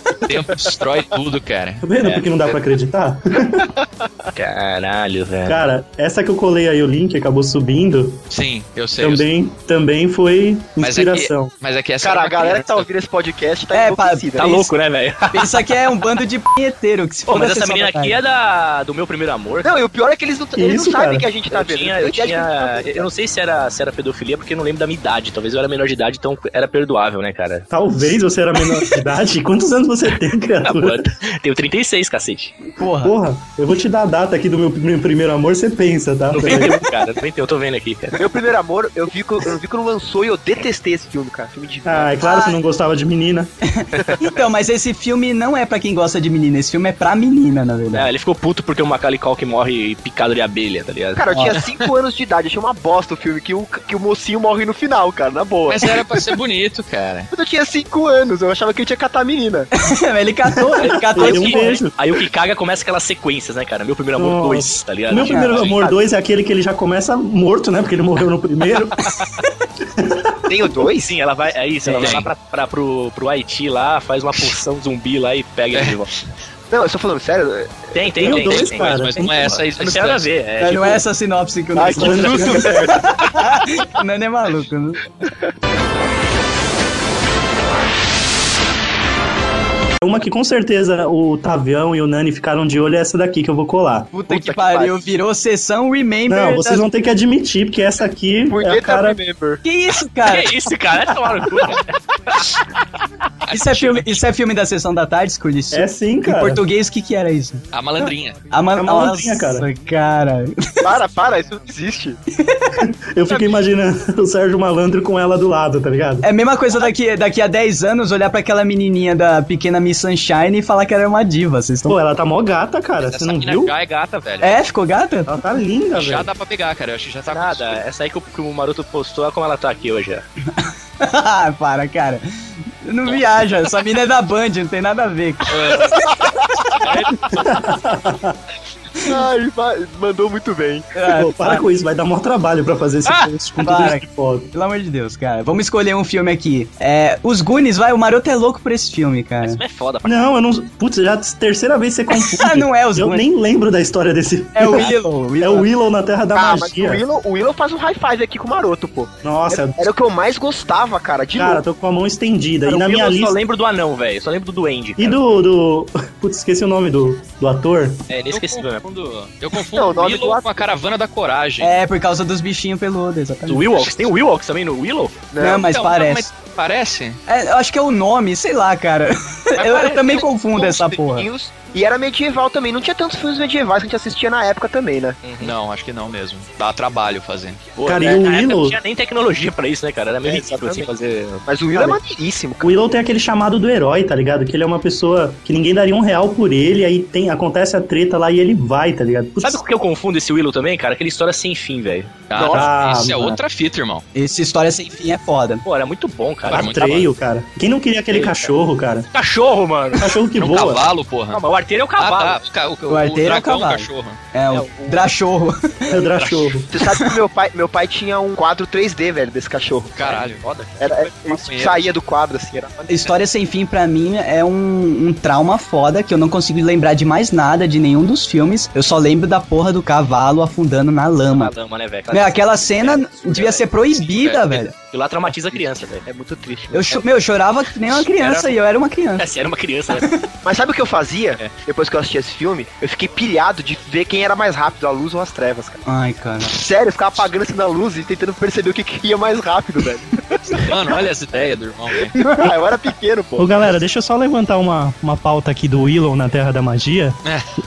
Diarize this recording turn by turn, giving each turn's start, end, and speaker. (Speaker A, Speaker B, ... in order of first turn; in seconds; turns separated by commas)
Speaker A: 0.2-1.8, Speaker B: 1.8-3.7, Speaker C: 2.0-2.3, Speaker C: 4.3-5.7, Speaker B: 5.5-8.2, Speaker A: 8.3-9.3, Speaker B: 9.0-11.5, Speaker A: 10.8-12.9, Speaker D: 12.0-14.7, Speaker E: 13.7-14.5, Speaker C: 14.4-15.8, Speaker E: 15.3-18.2, Speaker C: 17.3-19.7, Speaker D: 19.6-23.1, Speaker B: 20.6-21.3, Speaker C: 21.5-27.7, Speaker B: 27.7-31.1, Speaker C: 30.6-32.5, Speaker E: 32.8-33.1, Speaker B: 33.0-36.8, Speaker C: 36.3-38.2, Speaker D: 38.2-42.1, Speaker B: 41.8-43.5, Speaker E: 42.2-42.6, Speaker E: 43.6-48.1, Speaker C: 47.9-51.2, Speaker D: 51.1-56.0, Speaker A: 55.7-57.3, Speaker D: 57.3-59.7, Speaker E: 59.7-61.8, Speaker B: 60.5-61.9, Speaker C: 60.8-65.9, Speaker B: 64.2-69.1, Speaker E: 65.3-65.6, Speaker B: 69.9-70.3, Speaker D: 70.5-71.1, Speaker C: 71.0-76.1, Speaker E: 71.8-72.2, Speaker A: 72.0-72.3, Speaker A: 75.7-76.0, Speaker D: 76.7-78.3, Speaker C: 77.9-81.0, Speaker B: 78.2-79.2, Speaker A: 78.3-80.3, Speaker E: 80.6-85.0, Speaker D: 81.8-83.0, Speaker B: 81.9-83.0, Speaker B: 90.0-94.1, Speaker E: 94.1-96.9, Speaker D: 94.3-94.9, Speaker B: 96.3-99.2, Speaker D: 98.5-99.6, Speaker E: 99.6-100.6, Speaker C: 100.2-101.8, Speaker A: 103.5-104.2, Speaker E: 103.5-107.6, Speaker B: 105.7-106.6, Speaker A: 107.7-108.4, Speaker E: 108.5-111.0, Speaker B: 108.8-109.7, Speaker D: 110.8-112.2, Speaker E: 112.4-112.7, Speaker B: 113.1-116.3, Speaker D: 113.3-113.6, Speaker E: 116.2-122.0, Speaker B: 121.8-123.7, Speaker A: 123.0-124.5, Speaker E: 124.4-125.4, Speaker B: 125.3-126.3, Speaker A: 125.9-127.8, Speaker C: 127.3-130.2, Speaker E: 130.6-132.3, Speaker E: 132.8-135.9, Speaker A: 135.5-136.2, Speaker D: 136.2-136.7, Speaker C: 136.8-137.2, Speaker B: 137.2-138.4, Speaker D: 139.0-140.9, Speaker E: 140.9-141.6, Speaker B: 141.1-144.5, Speaker E: 143.6-149.6, Speaker C: 149.4-150.2, Speaker B: 150.0-157.0, Speaker E: 152.1-153.2, Speaker E: 154.5-155.7, Speaker D: 156.3-161.6, Speaker B: 159.2-159.8, Speaker B: 161.3-163.4, Speaker C: 162.7-165.2, Speaker B: 165.0-168.1, Speaker C: 168.1-168.8, Speaker A: 168.3-171.8, Speaker D: 169.7-170.5, Speaker E: 171.6-173.8, Speaker C: 173.5-175.3, Speaker A: 173.8-174.1, Speaker D: 175.3-175.6, Speaker E: 175.4-176.3, Speaker A: 175.5-177.2, Speaker E: 177.3-181.3, Speaker D: 180.0-185.2, Speaker C: 185.2-185.5, Speaker A: 185.4-187.7, Speaker C: 187.8-191.9, Speaker B: 187.8-188.8, Speaker D: 190.2-190.9, Speaker D: 191.4-192.7, Speaker B: 192.6-199.6, Speaker C: 199.4-202.2, Speaker A: 202.3-204.0, Speaker D: 202.3-202.7, Speaker B: 202.5-203.4, Speaker E: 204.1-205.6, Speaker C: 205.6-206.7, Speaker A: 206.4-207.1, Speaker B: 206.5-209.1, Speaker C: 208.1-208.5, Speaker C: 209.1-210.1, Speaker B: 209.9-210.8, Speaker A: 210.4-211.4, Speaker C: 211.3-212.4, Speaker A: 212.0-214.2, Speaker E: 212.9-215.9, Speaker C: 214.5-215.1, Speaker B: 215.9-216.7, Speaker C: 216.2-216.6, Speaker D: 216.7-220.0, Speaker A: 219.9-221.9, Speaker C: 220.0-220.9, Speaker D: 220.8-222.8, Speaker E: 222.9-231.5, Speaker C: 231.3-233.7, Speaker E: 232.1-234.7, Speaker A: 234.1-234.5, Speaker C: 234.8-236.1, Speaker D: 235.5-237.0, Speaker E: 236.7-239.3, Speaker C: 238.2-238.5, Speaker C: 239.2-240.1, Speaker E: 239.9-240.3, Speaker D: 240.4-245.8, Speaker E: 245.8-246.5, Speaker D: 246.4-250.7, Speaker A: 250.6-252.2, Speaker E: 252.2-252.5, Speaker D: 252.2-253.7, Speaker B: 253.4-257.2